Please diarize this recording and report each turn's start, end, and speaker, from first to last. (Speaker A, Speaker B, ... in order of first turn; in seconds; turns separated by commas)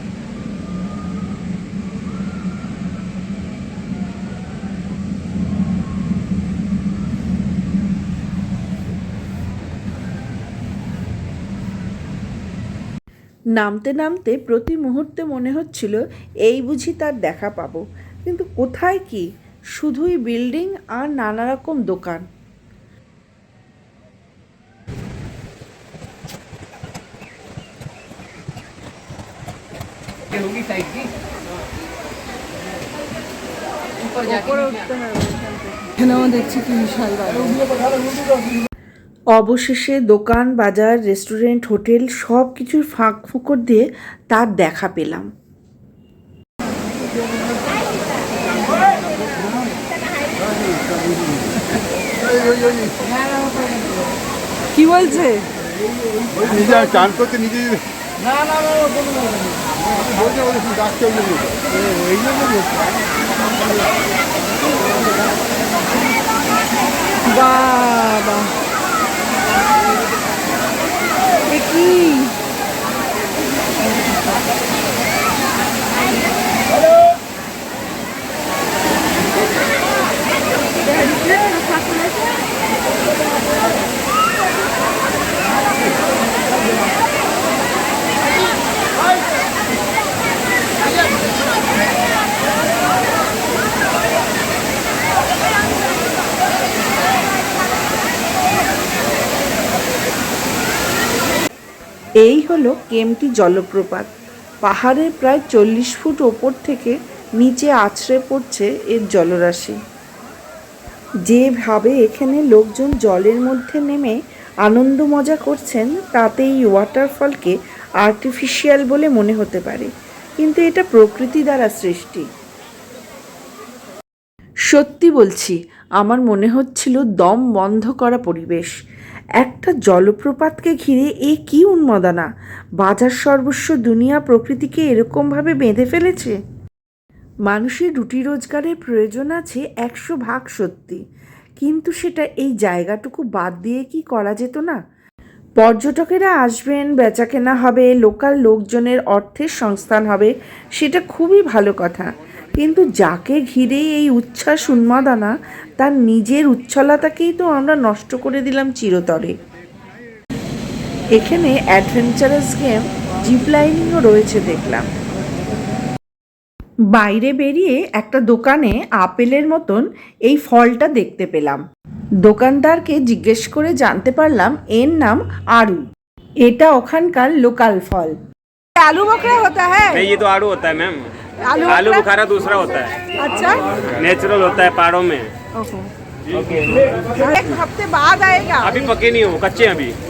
Speaker A: 13.6-19.2, Speaker A: 19.8-22.2, Speaker B: 34.1-37.7, Speaker A: 39.3-45.3, Speaker B: 54.7-55.5, Speaker C: 56.6-57.8, Speaker C: 60.3-61.5, Speaker B: 67.3-68.5, Speaker B: 71.5-72.4, Speaker A: 102.2-104.1, Speaker A: 104.6-109.8, Speaker A: 111.2-122.3, Speaker A: 124.7-128.7, Speaker A: 129.4-132.3, Speaker A: 132.8-136.3, Speaker A: 137.5-141.0, Speaker A: 141.6-144.8, Speaker A: 145.6-159.3, Speaker A: 161.2-164.9, Speaker A: 166.9-171.6, Speaker A: 172.2-175.9, Speaker A: 176.4-178.2, Speaker B: 178.8-180.1, Speaker D: 180.1-181.1, Speaker B: 181.4-182.1, Speaker D: 181.9-182.9, Speaker B: 183.2-183.8, Speaker D: 183.9-185.3, Speaker B: 185.5-185.9, Speaker D: 186.3-187.1, Speaker B: 187.2-189.0, Speaker D: 188.8-190.0